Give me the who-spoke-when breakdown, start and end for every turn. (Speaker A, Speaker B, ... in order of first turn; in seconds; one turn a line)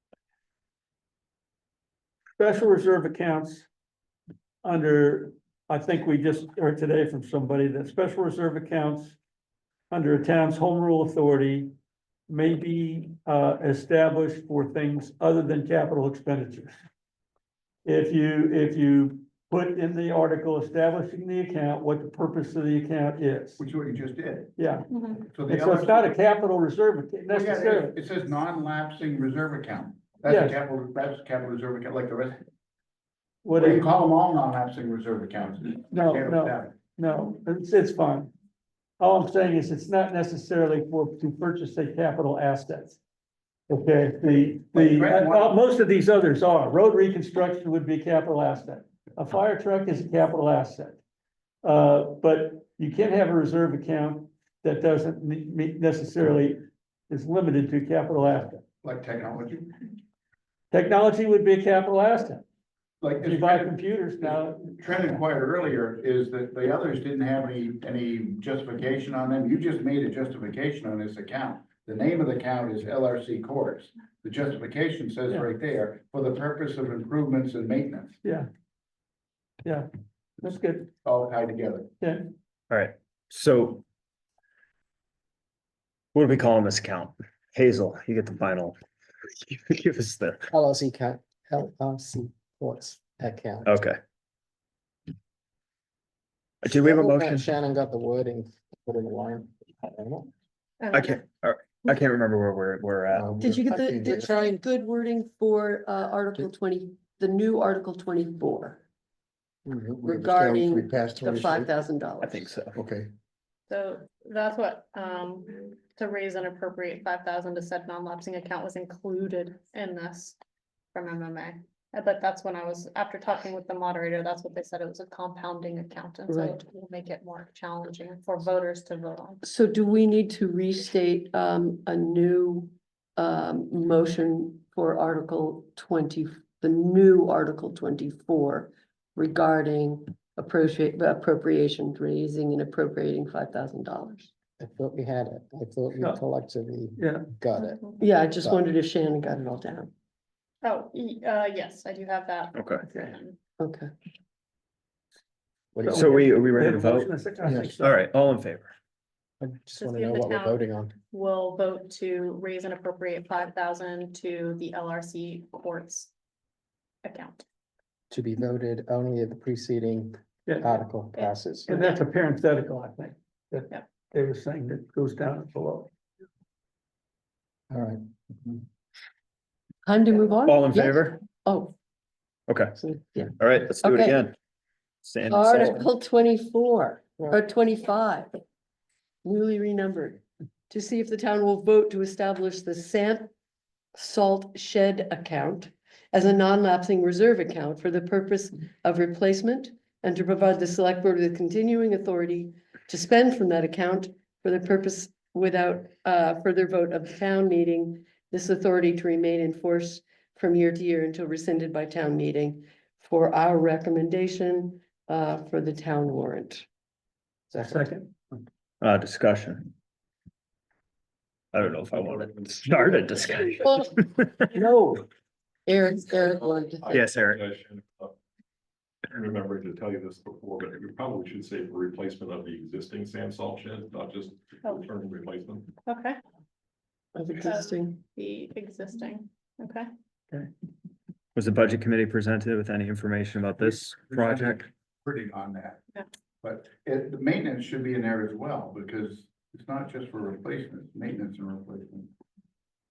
Speaker A: 2.4-3.7
Speaker A: 4.6-9.2
Speaker A: 9.9-11.7
Speaker A: 12.3-16.7
Speaker A: 17.8-23.6
Speaker B: 23.6-24.5
Speaker A: 24.6-24.9
Speaker C: 24.9-25.2
Speaker B: 25.3-26.1
Speaker A: 25.4-27.9
Speaker B: 27.3-32.4
Speaker A: 30.2-30.6
Speaker A: 33.4-33.9
Speaker B: 33.5-36.7
Speaker A: 35.9-38.3
Speaker A: 39.0-43.0
Speaker A: 43.7-51.0
Speaker B: 44.7-45.5
Speaker A: 51.6-58.6
Speaker B: 58.8-59.9
Speaker A: 60.7-62.4
Speaker B: 63.0-78.2
Speaker A: 63.2-65.0
Speaker A: 80.4-80.9
Speaker B: 81.0-81.9
Speaker A: 82.0-82.3
Speaker D: 82.7-83.8
Speaker D: 86.1-88.8
Speaker D: 89.4-90.5
Speaker E: 90.5-93.7
Speaker D: 93.6-94.0
Speaker D: 96.6-97.5
Speaker E: 96.6-100.3
Speaker C: 100.8-101.2
Speaker D: 100.9-103.4
Speaker E: 103.1-104.5
Speaker F: 103.4-108.8
Speaker E: 109.7-111.6
Speaker F: 110.0-112.5
Speaker D: 112.2-112.8
Speaker E: 112.8-113.0
Speaker C: 113.7-120.4
Speaker C: 120.9-129.4
Speaker F: 126.3-126.6
Speaker F: 129.4-144.3
Speaker E: 144.6-148.6
Speaker A: 146.0-146.2
Speaker A: 147.0-147.3
Speaker C: 147.6-148.0
Speaker F: 148.0-149.9
Speaker C: 150.6-153.3
Speaker D: 152.5-152.8
Speaker A: 152.9-153.1
Speaker F: 153.6-153.9
Speaker E: 155.7-156.3
Speaker A: 155.8-158.0
Speaker D: 155.9-157.1
Speaker E: 157.4-157.7
Speaker D: 157.8-158.7
Speaker E: 159.4-160.9
Speaker C: 159.8-166.1
Speaker C: 167.0-167.4
Speaker E: 168.1-171.7
Speaker A: 170.4-170.8
Speaker A: 171.7-175.9
Speaker E: 177.7-178.6
Speaker F: 179.8-181.7
Speaker D: 180.4-181.2
Speaker D: 182.5-182.8
Speaker F: 182.8-184.2
Speaker D: 183.4-184.3
Speaker D: 185.0-185.8
Speaker F: 185.2-188.4
Speaker F: 189.2-193.3
Speaker F: 193.9-216.7
Speaker A: 217.6-218.1
Speaker D: 218.8-219.7
Speaker D: 221.5-224.5
Speaker G: 221.6-223.9
Speaker F: 223.5-223.9
Speaker F: 224.5-225.0
Speaker F: 225.7-226.9
Speaker G: 226.8-228.2
Speaker D: 226.9-227.4
Speaker G: 229.1-235.7
Speaker C: 234.6-234.9
Speaker C: 235.8-236.2
Speaker F: 237.1-238.0
Speaker C: 237.4-239.9
Speaker D: 241.3-244.7
Speaker B: 243.6-245.8
Speaker B: 246.4-252.1